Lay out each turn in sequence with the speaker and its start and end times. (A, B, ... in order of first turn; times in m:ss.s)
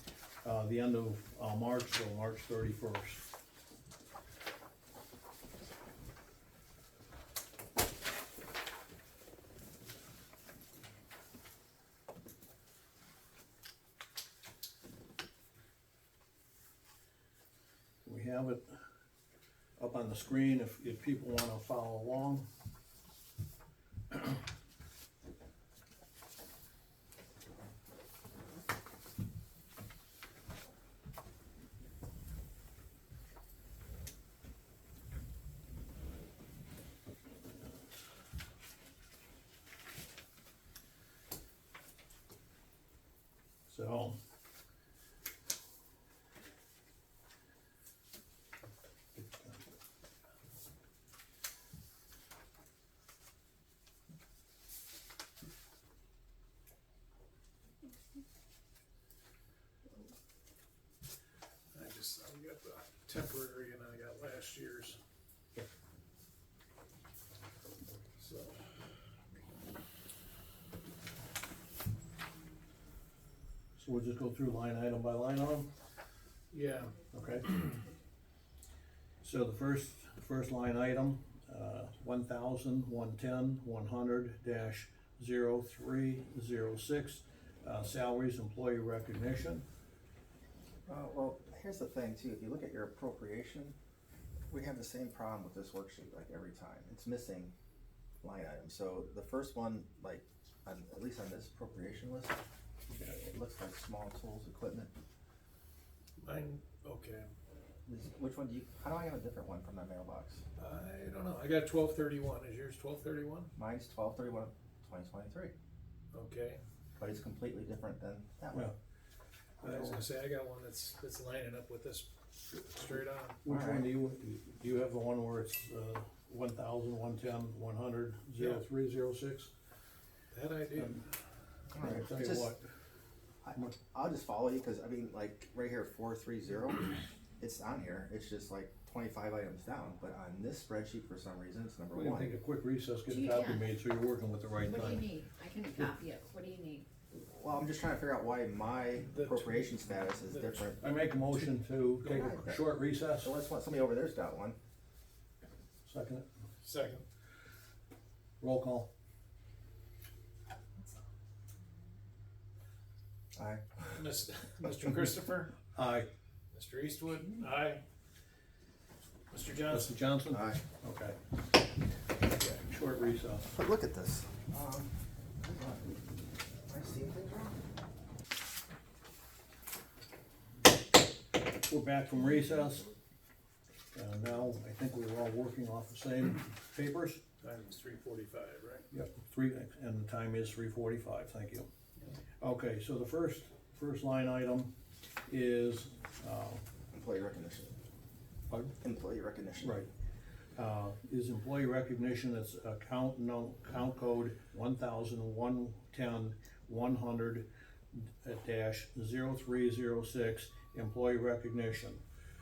0:00.4-0:03.2 A
0:18.0-0:18.8 A
0:19.8-0:22.4 A
0:43.7-0:44.2 A
0:49.2-0:49.5 A
1:01.7-1:05.0 B
1:08.2-1:08.6 B
1:13.8-1:15.7 A
1:16.5-1:17.0 B
1:17.1-1:17.5 A
1:19.2-1:29.6 A
1:30.9-1:33.7 C
1:34.5-1:37.5 C
1:38.2-1:42.4 C
1:42.9-1:43.2 A
1:43.1-1:44.9 C
1:46.2-1:47.3 B
1:47.8-1:50.4 C
1:50.6-1:53.5 B
1:53.6-1:55.5 C
1:56.1-1:56.6 B
1:57.0-1:58.7 C
1:59.6-2:00.0 A
1:59.6-2:03.4 B
2:03.4-2:09.5 A
2:03.5-2:03.9 C
2:08.4-2:08.6 B
2:10.3-2:11.1 B
2:10.8-2:11.0 A
2:11.7-2:12.5 C
2:11.8-2:12.6 A
2:13.4-2:22.3 C
2:21.9-2:25.1 A
2:23.1-2:23.7 D
2:24.6-2:26.8 D
2:27.1-2:30.9 C
2:29.1-2:30.7 B
2:30.8-2:33.3 A
2:32.0-2:34.6 C
2:35.8-2:36.3 A
2:36.6-2:37.0 B
2:38.4-2:38.9 A
2:43.3-2:44.0 C
2:43.9-2:45.5 B
2:45.7-2:46.1 A
2:46.5-2:47.8 B
2:49.3-2:50.0 B
2:49.7-2:51.2 A
2:50.3-2:50.6 C
2:52.4-2:53.5 A
2:53.5-2:56.0 C
2:56.6-2:57.6 C
3:01.5-3:02.9 A
3:03.9-3:07.2 A
3:07.4-3:08.9 B
3:08.9-3:11.7 A
3:12.4-3:14.7 A
3:15.2-3:16.6 A
3:16.9-3:17.7 C
3:18.8-3:19.9 C
3:19.6-3:19.9 A
3:20.6-3:32.0 A